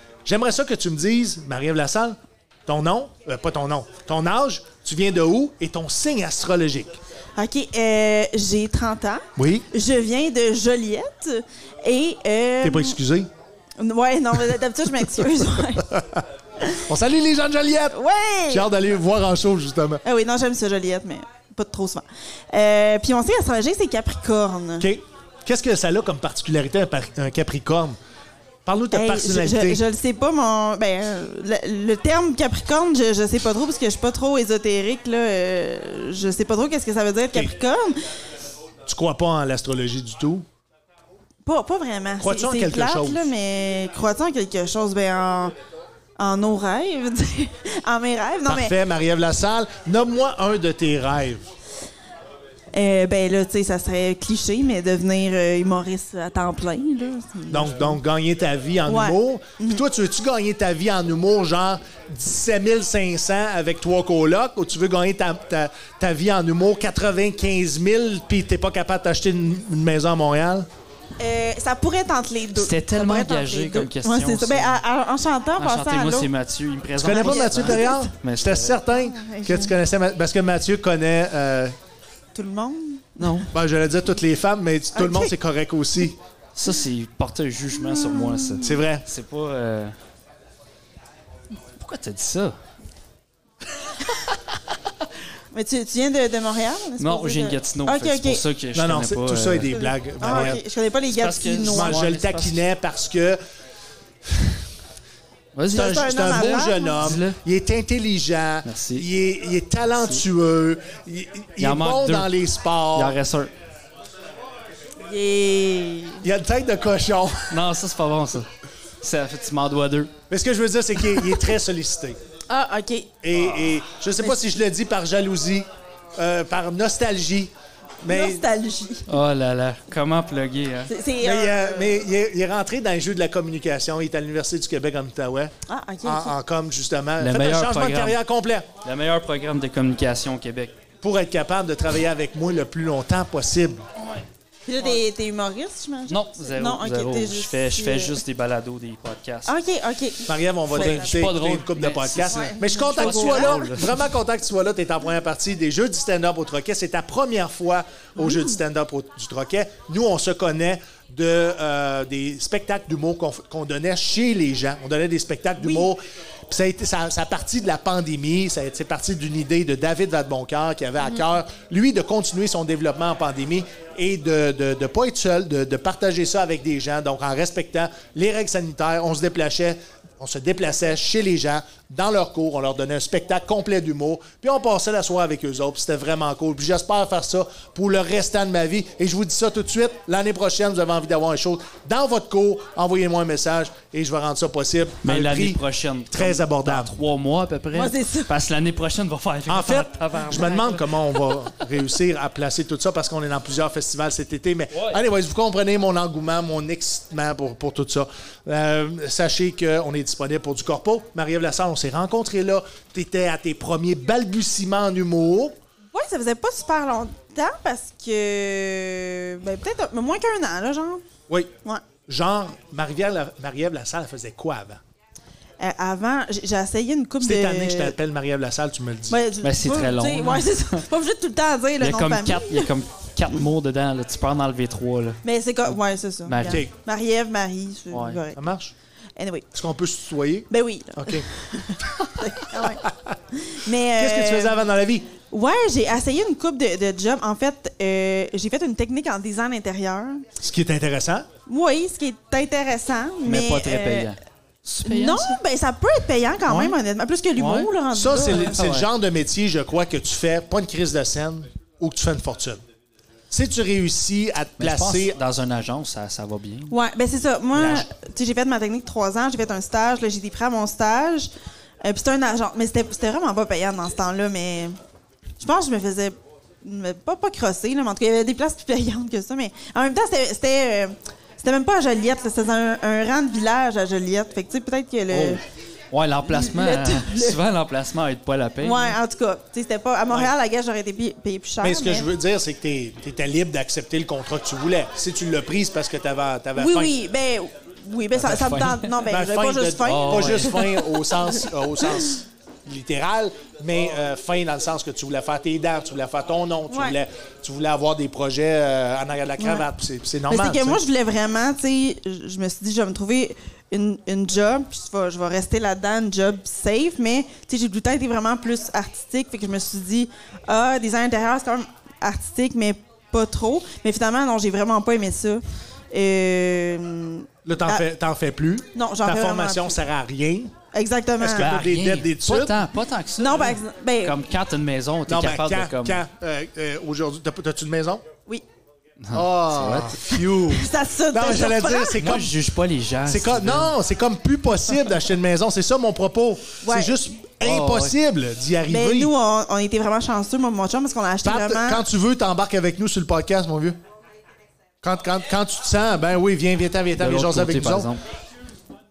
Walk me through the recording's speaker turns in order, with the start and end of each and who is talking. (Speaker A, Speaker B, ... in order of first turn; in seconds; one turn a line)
Speaker A: 0.2-7.0
Speaker B: 7.4-13.0
Speaker A: 9.4-9.7
Speaker A: 12.6-13.3
Speaker B: 13.8-16.0
Speaker A: 16.8-18.0
Speaker B: 17.9-18.7
Speaker A: 18.5-20.0
Speaker B: 20.1-24.9
Speaker A: 24.8-28.0
Speaker A: 28.7-29.8
Speaker B: 28.9-38.0
Speaker A: 38.9-40.5
Speaker B: 41.5-45.5
Speaker A: 42.2-43.3
Speaker B: 46.2-48.7
Speaker A: 48.5-51.5
Speaker B: 52.7-58.0
Speaker A: 57.5-70.7
Speaker B: 58.9-59.8
Speaker B: 71.2-76.3
Speaker C: 72.5-74.8
Speaker C: 75.6-78.8
Speaker A: 77.0-81.8
Speaker B: 77.1-78.1
Speaker B: 78.9-79.8
Speaker B: 82.3-83.5
Speaker C: 83.2-83.5
Speaker A: 83.5-86.2
Speaker B: 84.9-85.3
Speaker C: 86.5-90.0
Speaker B: 87.8-88.8
Speaker A: 88.6-89.0
Speaker C: 91.7-92.6
Speaker B: 95.5-98.4
Speaker C: 97.0-99.8
Speaker A: 98.7-100.6
Speaker B: 99.7-102.1
Speaker C: 101.1-102.6
Speaker A: 101.6-103.4
Speaker A: 104.3-104.6
Speaker C: 105.5-106.4
Speaker A: 105.7-113.2
Speaker B: 105.7-107.0
Speaker C: 107.0-107.4
Speaker C: 108.6-109.1
Speaker C: 111.6-112.3
Speaker C: 113.0-113.5
Speaker B: 115.0-116.3
Speaker A: 116.2-117.6
Speaker C: 117.5-118.5
Speaker C: 119.0-120.1
Speaker A: 120.3-122.2
Speaker B: 122.5-123.2
Speaker A: 123.2-128.5
Speaker B: 128.1-129.1
Speaker C: 129.1-130.9
Speaker B: 130.9-132.0
Speaker A: 131.2-135.5
Speaker B: 135.7-136.3
Speaker A: 136.0-138.7
Speaker C: 137.2-138.2
Speaker C: 138.8-140.8
Speaker A: 141.0-143.8
Speaker B: 144.7-148.2
Speaker C: 146.1-149.5
Speaker B: 149.5-151.2
Speaker A: 150.3-196.9
Speaker C: 150.7-153.9
Speaker B: 152.3-153.9
Speaker B: 165.6-165.9
Speaker C: 195.0-200.9
Speaker B: 197.7-198.3
Speaker A: 199.5-215.6
Speaker B: 215.9-221.0
Speaker A: 222.1-224.8
Speaker B: 225.6-228.0
Speaker A: 227.2-229.2
Speaker B: 229.1-232.7
Speaker C: 229.4-230.8
Speaker C: 231.8-235.2
Speaker B: 235.2-238.4
Speaker C: 236.3-236.6
Speaker A: 236.4-236.7
Speaker C: 237.9-238.2
Speaker A: 238.3-238.7
Speaker B: 239.2-239.5
Speaker A: 239.5-241.3
Speaker B: 240.5-244.6
Speaker A: 242.6-243.2
Speaker A: 244.0-245.1
Speaker B: 245.3-250.2
Speaker A: 250.4-251.3
Speaker B: 251.5-254.2
Speaker C: 253.2-255.4
Speaker B: 254.8-258.6
Speaker C: 256.5-256.7
Speaker C: 257.4-257.7
Speaker A: 257.9-262.6
Speaker A: 263.3-265.2
Speaker C: 264.6-266.8
Speaker B: 266.7-271.3
Speaker A: 267.5-267.9
Speaker B: 271.8-274.8
Speaker B: 275.4-285.4
Speaker C: 285.1-285.4
Speaker C: 285.9-288.9
Speaker B: 286.2-287.4
Speaker B: 288.6-292.1
Speaker A: 291.6-296.9
Speaker B: 296.6-301.2
Speaker C: 298.2-298.9
Speaker A: 299.1-310.8
Speaker C: 299.9-300.6
Speaker B: 306.7-307.0
Speaker B: 309.4-309.6
Speaker B: 310.3-327.9
Speaker A: 327.5-330.5
Speaker B: 328.8-329.8
Speaker B: 330.7-331.5
Speaker A: 331.2-332.6
Speaker C: 331.4-336.0
Speaker B: 333.2-334.2
Speaker A: 335.1-338.0
Speaker C: 339.0-340.0
Speaker A: 339.1-342.3
Speaker B: 340.4-342.1
Speaker C: 342.0-343.7
Speaker A: 343.1-349.1
Speaker B: 346.6-347.0
Speaker C: 347.4-347.9
Speaker B: 348.7-351.9
Speaker A: 351.2-353.8
Speaker A: 354.8-357.9
Speaker C: 357.0-358.0